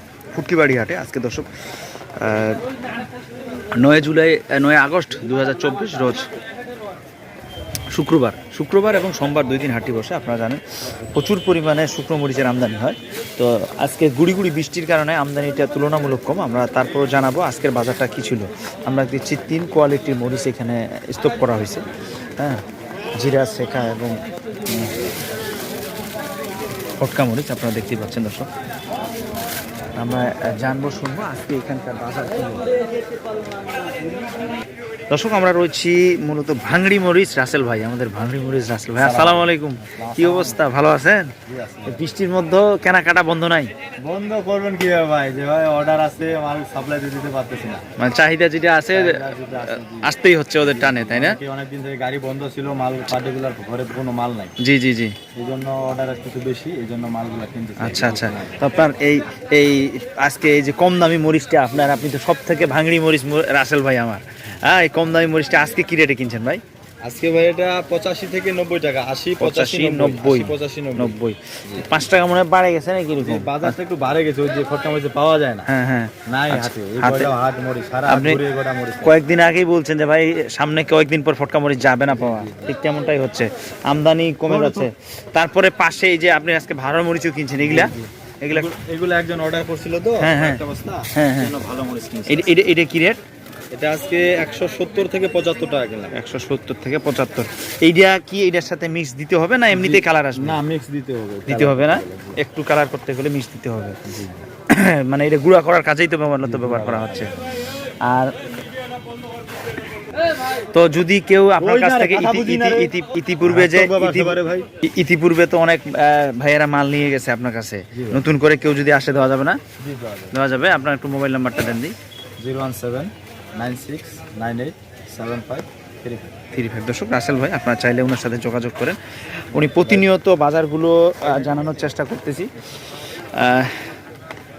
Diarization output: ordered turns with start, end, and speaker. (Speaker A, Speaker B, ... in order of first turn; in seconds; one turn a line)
Speaker A: 0.3-1.5
Speaker A: 2.2-2.6
Speaker A: 3.8-6.3
Speaker A: 7.9-21.8
Speaker A: 22.4-22.6
Speaker A: 23.1-24.9
Speaker A: 27.0-28.5
Speaker A: 30.0-32.7
Speaker A: 35.1-41.3
Speaker B: 39.0-40.6
Speaker B: 41.5-42.0
Speaker A: 41.9-43.7
Speaker B: 44.0-47.8
Speaker A: 48.0-51.4
Speaker B: 48.9-54.5
Speaker A: 54.6-55.2
Speaker B: 55.3-58.7
Speaker A: 57.8-66.6
Speaker B: 67.0-71.8
Speaker A: 69.4-73.8
Speaker B: 73.2-75.7
Speaker A: 75.7-77.3
Speaker B: 76.2-79.2
Speaker A: 78.1-78.4
Speaker A: 79.0-88.7
Speaker B: 82.1-82.7
Speaker B: 84.5-84.9
Speaker B: 87.6-92.6
Speaker A: 90.2-90.6
Speaker A: 91.1-91.5
Speaker A: 92.3-93.2
Speaker B: 93.7-96.1
Speaker A: 96.1-100.6
Speaker B: 99.7-102.4
Speaker A: 101.5-104.2
Speaker A: 104.7-107.3
Speaker B: 106.4-107.4
Speaker A: 108.0-108.3
Speaker A: 110.7-119.6
Speaker B: 111.6-114.7
Speaker B: 117.9-118.2
Speaker B: 119.8-120.3
Speaker A: 120.3-121.9
Speaker B: 122.4-126.3
Speaker A: 126.5-129.0
Speaker A: 129.5-132.5
Speaker B: 129.8-130.1
Speaker A: 133.3-133.7